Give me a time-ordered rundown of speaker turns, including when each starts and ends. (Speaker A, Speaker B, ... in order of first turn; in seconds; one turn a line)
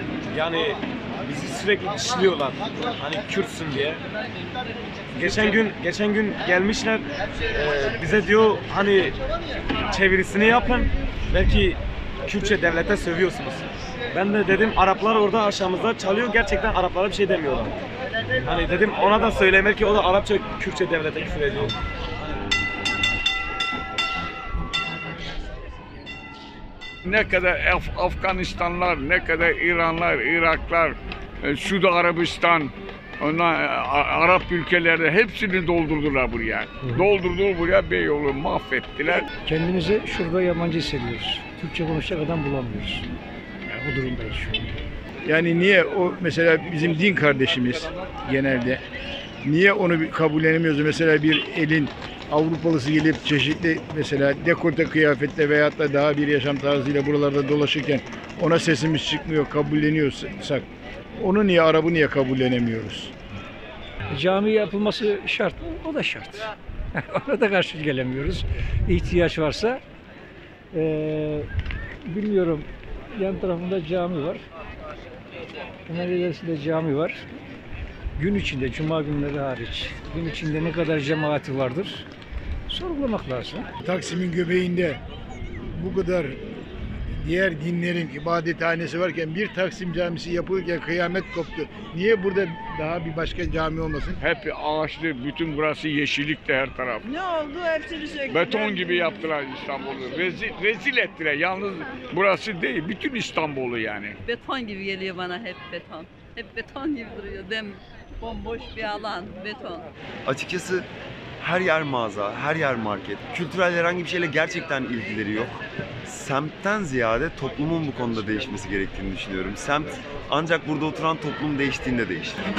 Speaker A: 0.3-4.0
Speaker A: 5.1-9.2
Speaker A: 9.9-17.8
Speaker A: 18.4-21.7
Speaker B: 27.1-39.3
Speaker C: 39.4-43.1
Speaker C: 43.7-44.8
Speaker D: 45.2-48.8
Speaker D: 49.4-60.6
Speaker D: 61.2-63.1
Speaker C: 64.1-69.8
Speaker C: 70.7-71.5
Speaker C: 72.0-74.4
Speaker C: 75.9-77.2
Speaker C: 78.2-82.1
Speaker C: 82.7-83.7
Speaker D: 83.8-85.0
Speaker D: 85.7-86.4
Speaker D: 87.1-94.2
Speaker B: 94.2-97.0
Speaker E: 97.6-98.1
Speaker B: 98.3-104.2
Speaker E: 104.3-109.9
Speaker F: 110.3-110.9
Speaker F: 111.4-122.4